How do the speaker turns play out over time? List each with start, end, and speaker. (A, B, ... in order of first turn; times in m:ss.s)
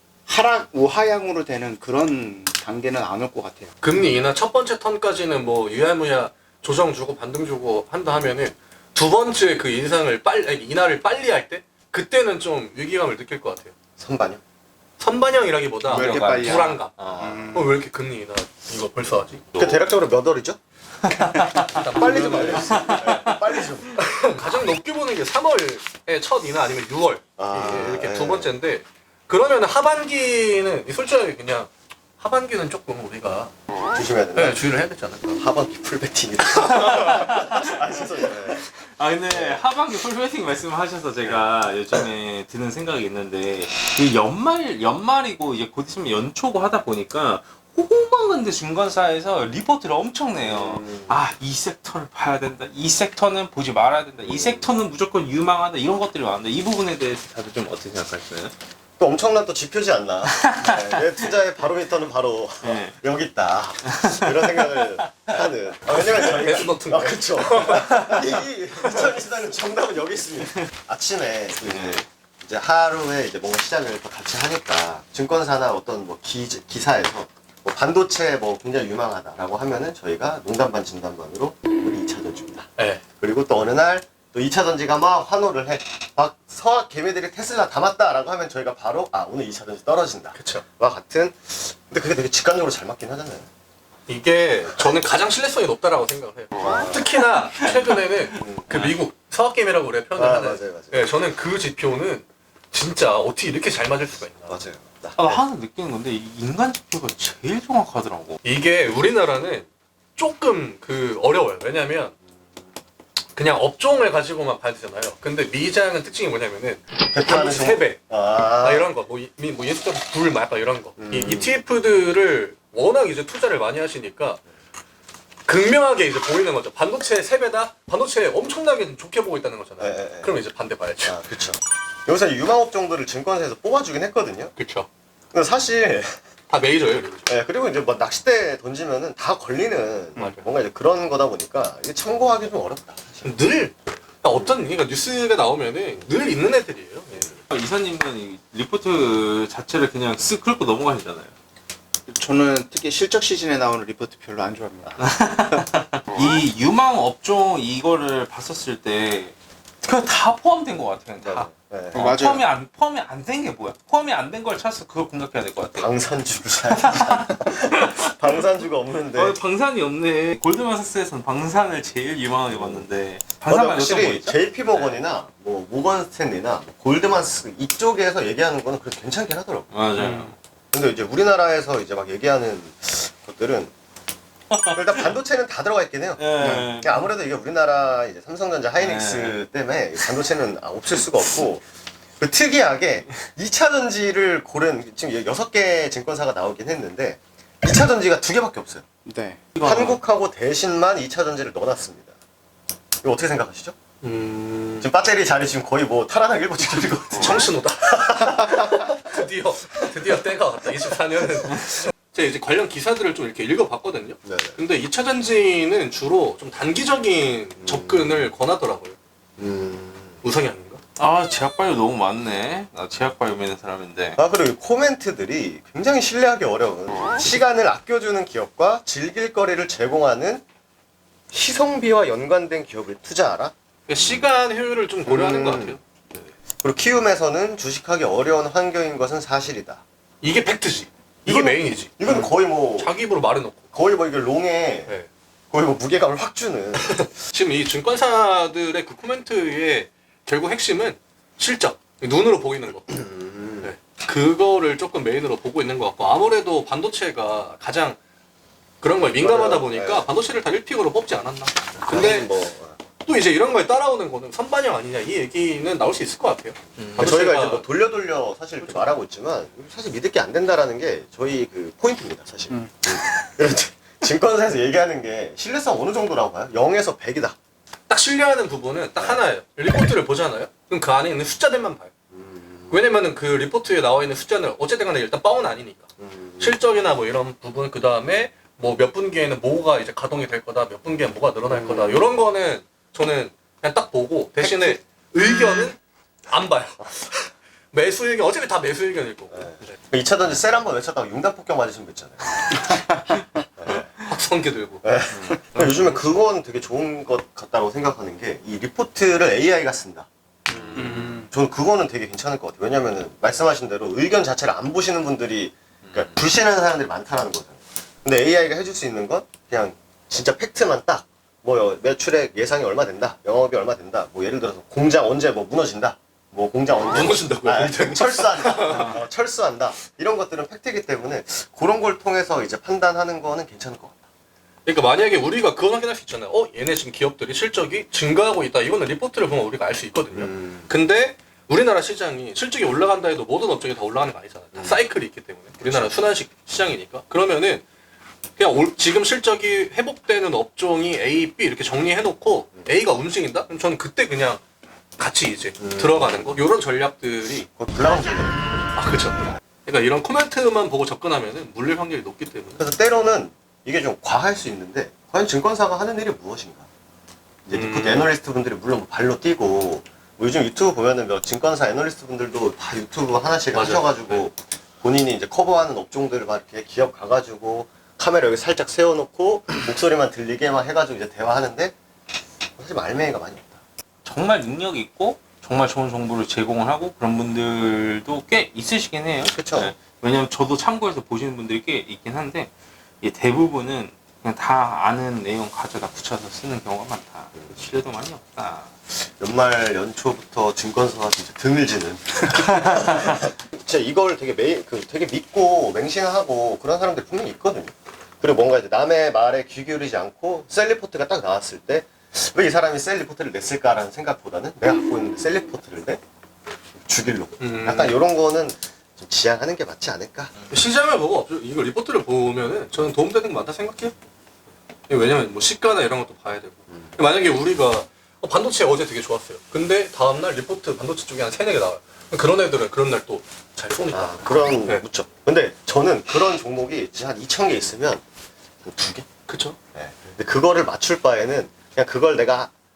0:00.3-0:03.7 A
0:03.8-0:13.7 B
0:14.0-0:14.4 C
0:15.0-0:19.5 B
0:15.9-0:17.5 D
0:15.9-0:17.8 A
0:19.5-0:20.6 C
0:21.1-0:21.7 D
0:21.2-0:23.1 B
0:21.9-0:24.0 C
0:22.0-0:22.5 A
0:22.7-0:23.4 D
0:24.0-0:33.5 B
0:27.4-0:28.5 C
0:33.9-0:34.6 C
0:34.3-0:35.2 B
0:35.2-0:38.7 C
0:36.8-0:37.6 D
0:38.3-0:58.5 D
0:39.3-0:39.6 C
0:50.4-0:51.2 C
0:54.2-0:54.7 C
0:59.0-1:22.7 C
1:00.3-1:01.0 D
1:02.6-1:03.0 D
1:03.8-1:04.8 D
1:06.2-1:08.0 B
1:11.6-1:12.0 D
1:22.8-1:23.0 B
1:23.2-1:33.5 C
1:30.3-1:30.6 B
1:34.1-1:44.6 B
1:36.6-1:37.2 C
1:38.4-1:38.7 C
1:38.7-1:39.0 D
1:40.2-1:41.2 C
1:44.4-1:45.4 C
1:45.2-1:48.4 D
1:48.4-1:52.1 B
1:53.4-1:58.0 B
1:57.1-1:58.9 C
1:58.6-2:04.4 B
2:01.0-2:01.5 C
2:05.5-2:11.2 B
2:09.8-2:10.3 C
2:11.0-2:14.5 C
2:14.6-2:14.9 B
2:15.3-2:16.1 C
2:16.5-2:17.3 B
2:17.2-2:23.3 C
2:20.2-2:20.4 B
2:23.2-2:27.4 B
2:27.5-2:31.3 D
2:32.1-2:35.0 A
2:35.0-2:45.9 D
2:41.2-2:42.0 C
2:41.9-2:42.4 A
2:45.8-2:49.4 C
2:46.8-2:48.1 D
2:49.1-2:55.0 D
2:52.5-2:52.9 C
2:53.5-3:00.1 C
2:59.7-3:00.3 D
3:00.7-3:03.7 C
3:04.5-3:05.1 D
3:04.7-3:11.6 C
3:06.2-3:07.1 D
3:06.4-3:06.7 A
3:08.8-3:09.4 D
3:12.2-3:18.8 C
3:19.0-3:19.5 A
3:19.6-3:22.1 C
3:19.6-3:20.0 D
3:23.0-3:23.7 C
3:24.0-3:24.9 B
3:24.8-3:29.2 C
3:27.1-3:28.0 B
3:28.8-3:39.0 B
3:34.2-3:34.6 C
3:37.6-3:38.3 C
3:39.4-3:40.2 C
3:40.2-3:40.8 B
3:41.0-3:44.2 D
3:44.2-3:50.4 C
3:51.3-3:54.3 C
3:53.9-3:55.8 B
3:55.0-3:55.8 C
3:56.6-3:59.8 C
4:00.2-4:03.6 B
4:01.2-4:02.9 C
4:03.7-4:04.9 C
4:05.5-4:07.1 C
4:06.8-4:12.9 B
4:12.9-4:13.7 C
4:13.6-4:18.0 B
4:18.8-4:22.4 B
4:19.2-4:20.1 C
4:21.8-4:22.8 C
4:23.0-4:27.7 B
4:26.9-4:37.4 C
4:28.6-4:28.9 B
4:37.9-4:41.9 B
4:39.0-4:39.2 C
4:42.1-4:42.8 C
4:42.7-4:45.9 B
4:46.0-4:46.6 C
4:46.4-4:59.8 B
4:51.5-4:52.1 C
4:59.3-5:02.4 C
5:03.6-5:03.9 C
5:03.7-5:04.8 B
5:04.8-5:34.0 C
5:05.1-5:05.8 D
5:10.5-5:11.1 D
5:10.8-5:11.3 A
5:15.8-5:16.1 D
5:26.8-5:28.9 B
5:28.7-5:29.0 D
5:34.6-5:47.6 B
5:40.1-5:40.7 C
5:44.5-5:44.8 C
5:45.6-5:46.0 C
5:48.4-5:54.4 B
5:55.0-5:57.5 B
5:55.6-5:56.4 C
5:57.6-5:58.5 C
5:58.7-6:02.6 B
6:02.6-6:06.6 C
6:07.4-6:21.7 C
6:07.5-6:08.1 B
6:13.5-6:14.2 B
6:22.6-6:23.6 C
6:24.0-6:32.5 D
6:29.2-6:29.7 C
6:33.0-6:38.7 D
6:38.9-6:56.0 C
6:56.8-7:00.3 C
6:57.4-6:58.0 B
7:00.5-7:03.9 B
7:04.9-7:14.8 B
7:06.7-7:07.0 C
7:13.9-7:18.0 C
7:18.6-7:19.1 C
7:19.3-7:19.6 B
7:19.7-7:22.5 C